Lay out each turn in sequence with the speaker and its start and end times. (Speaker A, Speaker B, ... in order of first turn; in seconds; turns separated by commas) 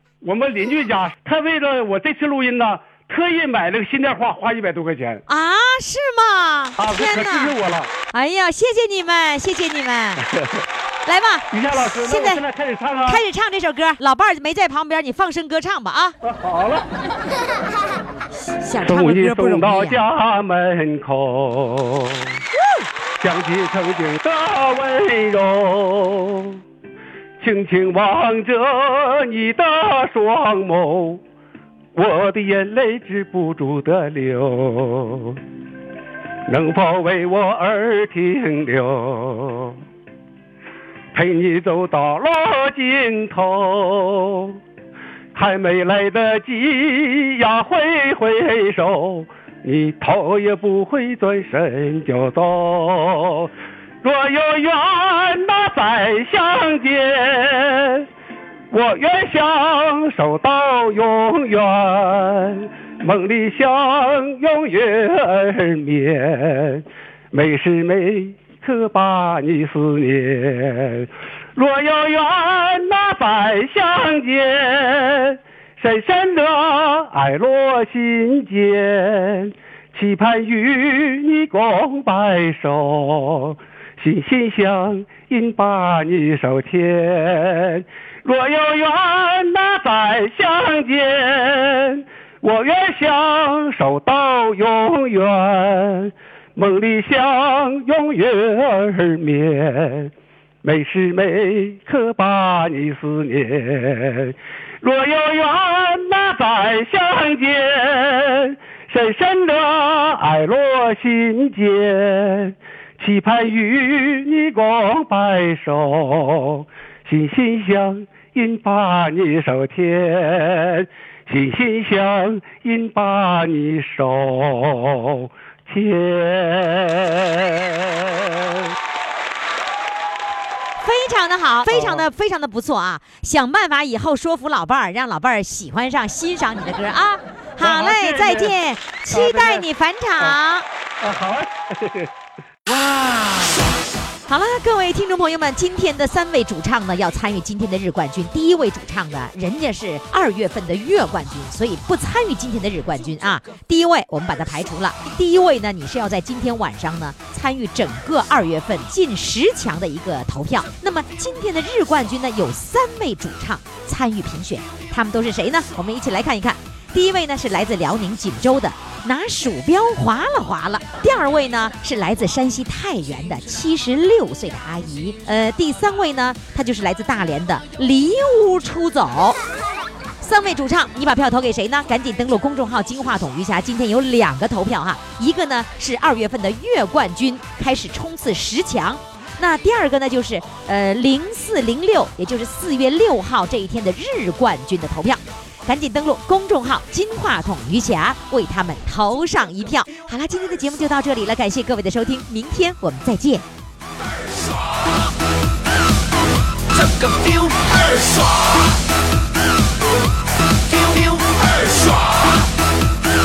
Speaker A: 0.2-5.2, Speaker B: 5.3-7.5, Speaker A: 6.8-7.9, Speaker B: 8.1-10.2, Speaker A: 10.2-10.6, Speaker B: 11.1-12.4, Speaker A: 11.5-13.2, Speaker B: 13.1-16.1, Speaker A: 16.2-16.9, Speaker B: 18.6-20.0, Speaker A: 18.8-22.4, Speaker B: 22.5-22.9, Speaker A: 23.2-26.6, Speaker A: 27.4-31.2, Speaker A: 31.9-35.4, Speaker A: 36.5-39.8, Speaker A: 41.1-44.6, Speaker A: 45.3-53.5, Speaker A: 54.0-58.0, Speaker A: 58.7-100.1, Speaker A: 100.6-128.6, Speaker B: 130.8-140.7, Speaker A: 131.7-132.1, Speaker A: 137.6-138.5, Speaker A: 139.1-139.7, Speaker A: 141.0-142.1, Speaker A: 142.7-143.5, Speaker B: 144.3-179.4, Speaker B: 180.2-203.4, Speaker C: 206.7-208.7, Speaker C: 210.6-212.4